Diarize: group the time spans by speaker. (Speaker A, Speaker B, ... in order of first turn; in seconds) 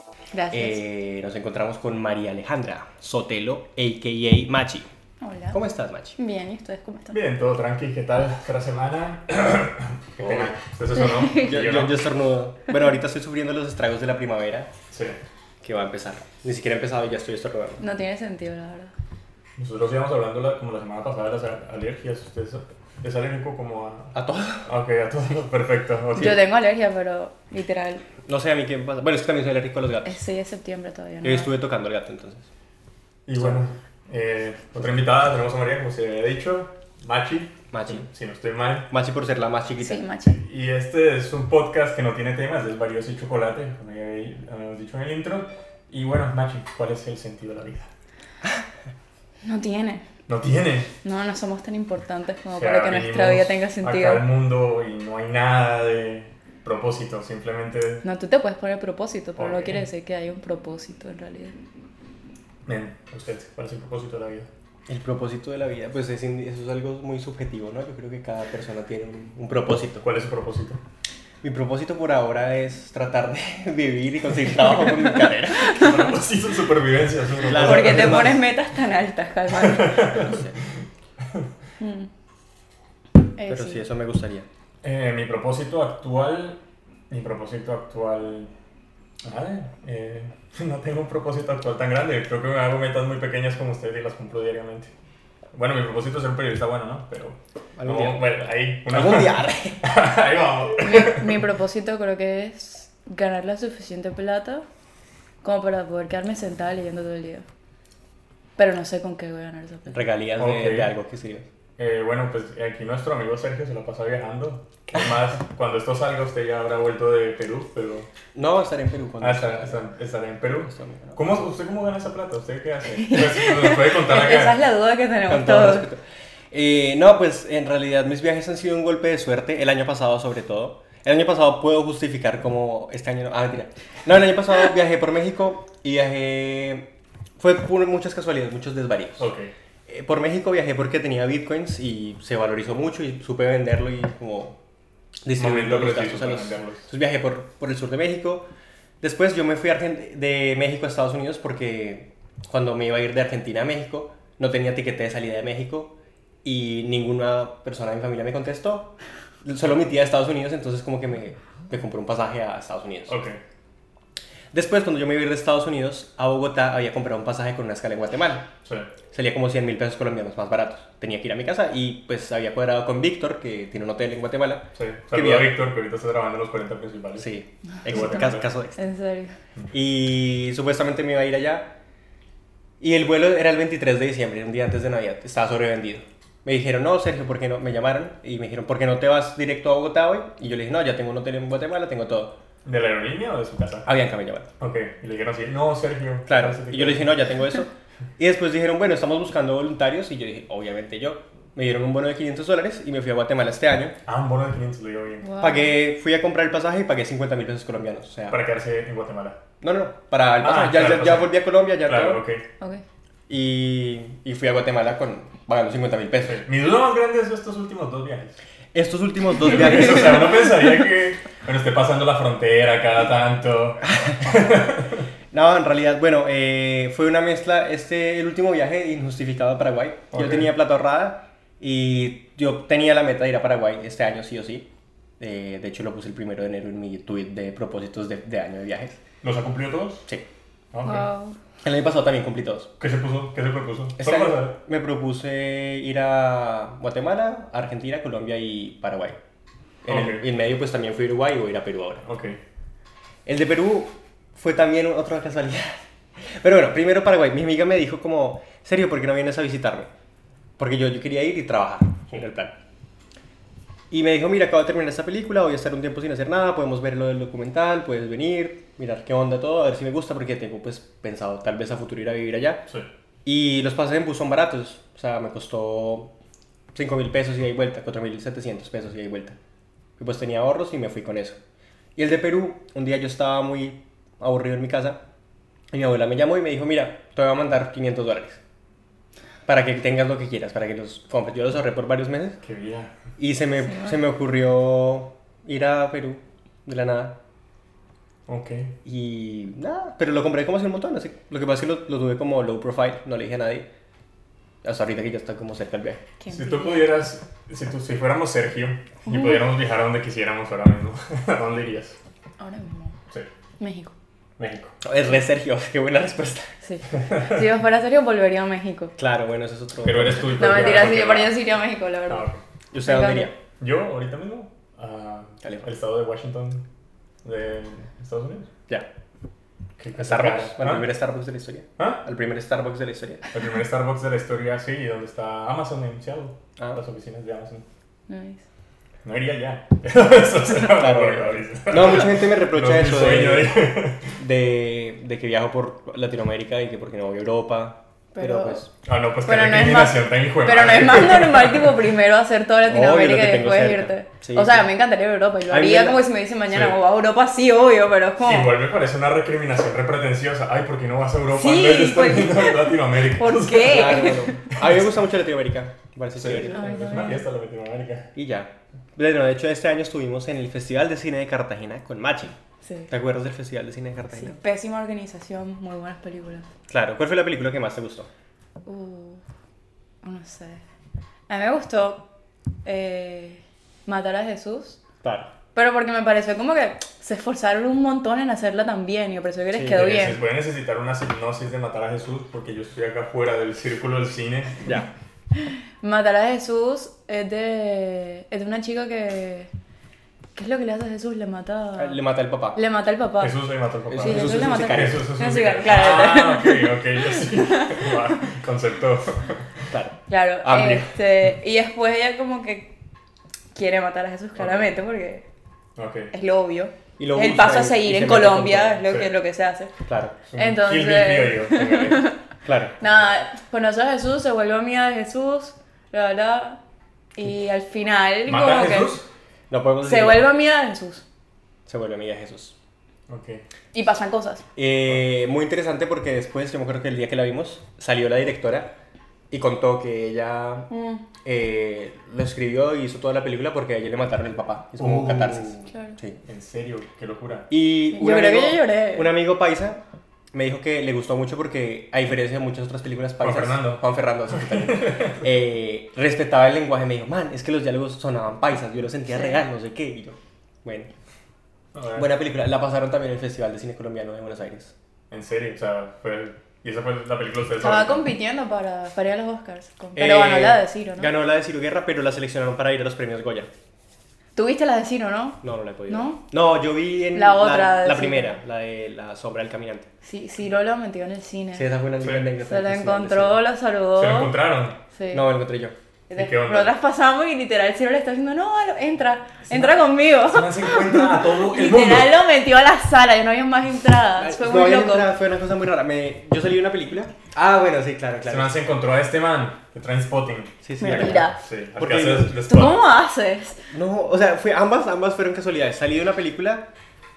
Speaker A: 0.3-0.8, 5.2-5.6, 6.2-7.2, 10.9-11.5, 17.8-18.9, 26.1-28.0, 30.0-31.5, 39.8-40.4, 49.4-50.1, 51.0-54.2, 58.0-61.6, 75.1-76.1, 77.5-80.2, 81.8-82.1, 83.4-83.8, 100.8-104.7, 105.4-107.5, 108.6-110.0, 123.0-125.9, 178.8-179.3, 205.2-205.7, 240.8-241.4, 293.6-293.9, 306.2-306.9, 309.1-309.4, 312.4-312.9, 313.6-313.9, 316.6-318.9, 320.4-322.3, 322.8-323.3, 338.1-338.4, 348.1-348.7, 349.2-358.6, 361.3-364.5, 366.5-367.3, 372.6-372.9, 374.1-376.5, 378.6-379.2, 380.0-380.6, 381.3-382.0, 382.6-384.8, 385.6-390.2, 395.4-399.5, 400.4-402.0, 402.5-403.4, 404.0-408.0, 410.1-412.7, 413.6-415.2, 416.1-419.7, 420.4-422.2, 422.8-426.6, 427.2-429.0, 429.8-431.1, 433.7-434.4, 440.7-441.0, 445.7-446.0, 447.9-449.1, 459.1-459.4, 467.6-471.1, 474.4-476.2, 477.1-478.4, 480.0-481.7, 482.4-484.3, 484.9-485.3, 486.1-495.1, 500.8-501.4, 502.5-503.6
Speaker B: 0.5-4.9, 5.5-6.2, 10.2-10.5, 11.3-14.7, 15.6-17.9, 24.1-24.7, 28.3-30.2, 31.2-32.5, 37.7-38.1, 38.9-40.0, 64.9-70.0, 71.4-75.9, 77.5-78.4, 80.1-80.6, 83.5-84.5, 97.8-98.3, 98.9-99.8, 109.9-111.5, 118.3-119.8, 120.6-121.2, 125.3-126.0, 126.5-139.3, 139.9-144.6, 145.2-148.5, 149.0-158.9, 159.4-163.2, 164.5-168.5, 169.1-175.6, 177.2-178.8, 179.7-181.7, 182.8-192.4, 193.8-194.5, 196.3-204.0, 205.4-208.4, 209.6-212.2, 213.3-216.4, 218.7-220.4, 223.9-224.3, 225.3-234.7, 235.2-239.0, 241.6-242.7, 244.0-249.2, 249.8-252.1, 253.3-259.9, 260.6-262.6, 263.9-272.6, 273.2-276.1, 276.7-279.4, 280.0-281.4, 282.0-285.0, 285.7-288.4, 289.5-292.4, 293.2-297.2, 298.9-303.7, 304.6-306.0, 314.8-316.5, 319.0-320.9, 322.7-323.4, 330.0-333.3, 340.7-343.6, 344.1-348.7, 352.6-354.7, 355.5-356.1, 363.6-366.7, 368.1-372.4, 372.9-374.4, 376.7-378.1, 385.0-385.3, 389.5-389.8, 401.8-402.6, 403.9-405.1, 409.7-410.9, 417.0-418.8, 419.9-420.2, 422.4-422.7, 429.5-430.3, 431.7-432.6, 434.6-438.7, 439.3-440.7, 441.2-446.2, 447.5-449.8, 450.3-460.9, 462.0-464.7, 470.0-473.5, 475.4-479.9, 481.6-483.4, 485.1-485.8, 494.2-498.6, 500.6-502.3, 503.7-506.7
Speaker C: 7.1-12.0, 14.9-15.2, 19.6-24.1, 24.7-26.4, 33.3-38.9, 40.3-47.9, 50.3-50.9, 52.5-58.0, 59.4-59.8, 62.7-64.5, 70.0-70.8, 75.7-78.4, 79.6-80.5, 84.8-88.5, 89.2-94.9, 95.5-101.4, 110.4-110.9, 111.8-118.1, 119.2-124.6, 139.2-139.5, 145.4-146.9, 163.1-163.4, 174.8-178.5, 192.7-193.9, 194.6-197.1, 204.1-205.4, 208.3-209.4, 210.4-212.4, 216.3-218.4, 219.4-225.1, 230.1-230.5, 239.2-240.1, 240.7-241.1, 242.8-244.6, 249.9-250.2, 252.0-252.4, 292.4-292.9, 298.3-298.7, 306.3-312.0, 314.4-314.7, 317.1-317.4, 319.8-321.4, 322.1-322.4, 323.6-326.6, 327.2-328.5, 329.8-330.9, 331.8-332.0, 333.3-337.6, 339.0-344.1, 348.8-351.9, 356.5-356.8, 358.2-364.7, 366.2-368.1, 389.6-394.8, 403.2-409.5, 414.4-414.7, 415.8-416.1, 420.3-422.1, 428.3-429.1, 433.1-433.4, 444.8-445.6, 446.2-447.5, 453.2-455.2, 461.7-462.1, 465.1-468.1, 482.0-482.3, 484.0-484.8, 486.1-486.8, 489.5-492.2, 498.3-502.8